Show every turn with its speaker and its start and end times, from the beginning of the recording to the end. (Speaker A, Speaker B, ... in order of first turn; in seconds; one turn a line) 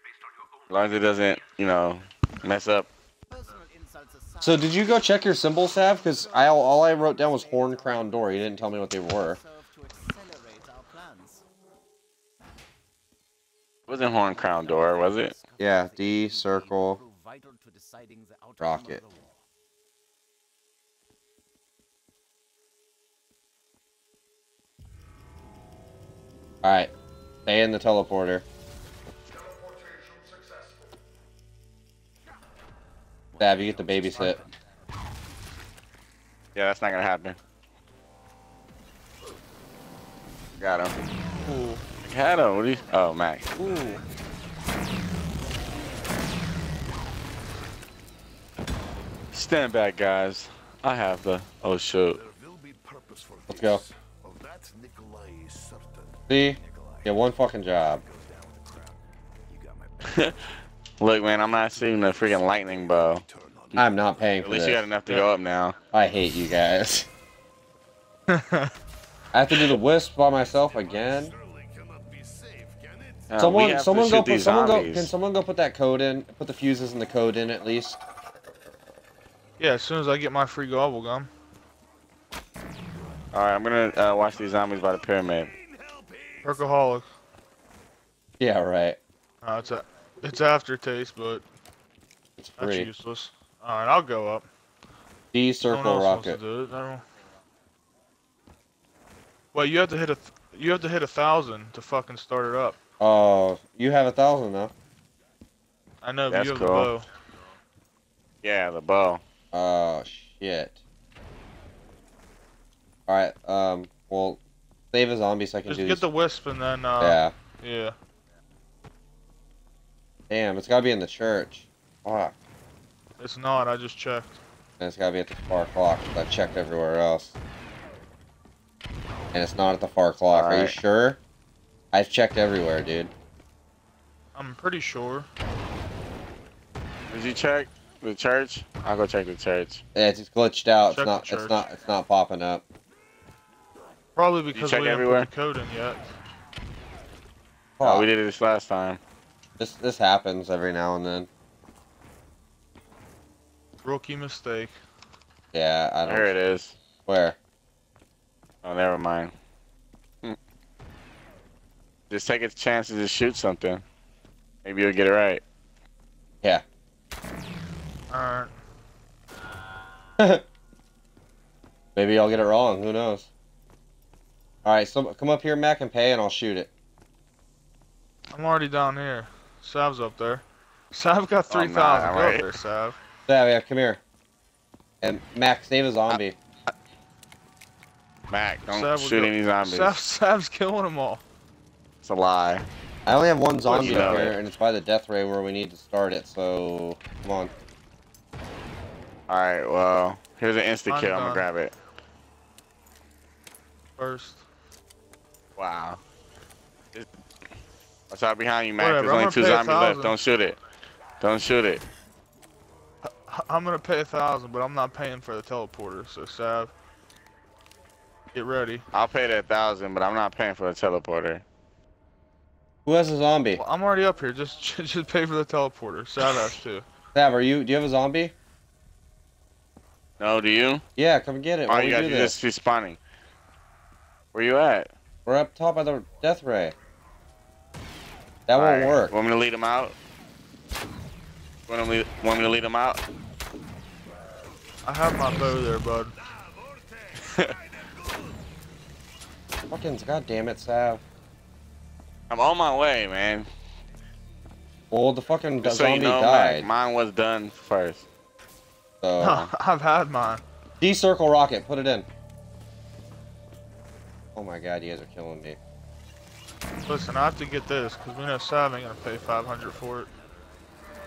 Speaker A: 0.7-2.9
Speaker B: 4.4-9.4
Speaker A: 13.9-15.4
Speaker B: 15.6-17.0
Speaker B: 18.6-19.0
Speaker B: 26.6-26.9
Speaker B: 27.5-28.4
Speaker C: 33.3-34.6
Speaker B: 33.4-34.4
Speaker A: 36.5-37.4
Speaker A: 40.6-40.9
Speaker C: 41.0-45.0
Speaker D: 41.4-41.8
Speaker A: 42.0-43.5
Speaker D: 43.6-44.0
Speaker A: 49.3-52.2
Speaker C: 52.1-57.2
Speaker B: 53.5-53.8
Speaker B: 56.3-58.0
Speaker C: 57.8-60.5
Speaker A: 60.1-60.4
Speaker A: 61.0-63.2
Speaker C: 61.7-64.1
Speaker B: 63.7-64.8
Speaker A: 64.4-65.8
Speaker B: 65.9-67.1
Speaker D: 68.3-68.7
Speaker B: 69.3-71.3
Speaker C: 70.3-73.6
Speaker A: 73.3-75.1
Speaker B: 73.4-78.0
Speaker D: 79.6-81.3
Speaker C: 83.0-83.2
Speaker A: 83.3-85.5
Speaker C: 84.3-86.7
Speaker D: 86.4-87.1
Speaker B: 88.4-89.0
Speaker D: 89.4-91.4
Speaker B: 92.4-92.9
Speaker D: 92.6-94.5
Speaker B: 95.3-96.4
Speaker D: 95.7-97.0
Speaker D: 99.5-102.8
Speaker B: 103.0-104.7
Speaker D: 106.0-107.0
Speaker A: 106.3-106.9
Speaker A: 108.4-109.2
Speaker B: 109.5-110.8
Speaker B: 113.1-114.4
Speaker B: 114.9-116.0
Speaker D: 115.7-118.0
Speaker B: 117.0-117.3
Speaker B: 120.3-122.3
Speaker D: 123.2-124.4
Speaker B: 124.8-127.3
Speaker B: 129.3-131.2
Speaker A: 130.3-130.8
Speaker B: 131.9-133.1
Speaker D: 134.3-135.3
Speaker A: 137.1-139.8
Speaker B: 139.9-142.6
Speaker D: 140.9-141.6
Speaker D: 144.2-146.0
Speaker A: 144.5-145.3
Speaker B: 147.8-148.1
Speaker A: 147.8-149.0
Speaker B: 149.6-151.3
Speaker D: 153.8-154.8
Speaker B: 155.5-156.3
Speaker A: 156.1-156.8
Speaker B: 157.1-157.4
Speaker A: 158.6-159.3
Speaker A: 162.1-163.8
Speaker A: 164.6-165.4
Speaker D: 168.1-168.5
Speaker B: 170.2-170.4
Speaker B: 171.9-173.3
Speaker B: 174.6-176.7
Speaker D: 178.3-183.0
Speaker A: 181.5-182.5
Speaker B: 183.3-184.0
Speaker B: 185.0-186.4
Speaker A: 188.3-189.9
Speaker D: 188.7-191.2
Speaker A: 192.0-192.7
Speaker B: 193.1-197.5
Speaker D: 193.7-194.3
Speaker A: 193.7-194.4
Speaker A: 199.3-201.7
Speaker D: 200.9-201.5
Speaker D: 204.0-204.4
Speaker A: 205.6-206.0
Speaker A: 208.1-210.6
Speaker D: 208.8-210.1
Speaker A: 211.2-211.8
Speaker D: 213.3-216.7
Speaker D: 218.3-218.8
Speaker A: 218.9-221.4
Speaker B: 222.9-223.6
Speaker D: 223.6-226.9
Speaker B: 227.1-228.3
Speaker A: 230.2-230.8
Speaker B: 231.0-232.4
Speaker A: 231.7-233.0
Speaker A: 234.3-234.9
Speaker B: 235.3-236.8
Speaker B: 238.5-239.1
Speaker A: 238.6-240.0
Speaker A: 241.7-243.0
Speaker D: 244.8-246.2
Speaker C: 246.2-248.4
Speaker A: 247.3-247.5
Speaker B: 249.7-251.0
Speaker A: 252.3-253.5
Speaker B: 254.9-256.7
Speaker A: 255.6-258.1
Speaker B: 259.0-259.5
Speaker D: 259.2-260.4
Speaker B: 260.8-262.1
Speaker B: 264.4-265.6
Speaker D: 266.9-270.1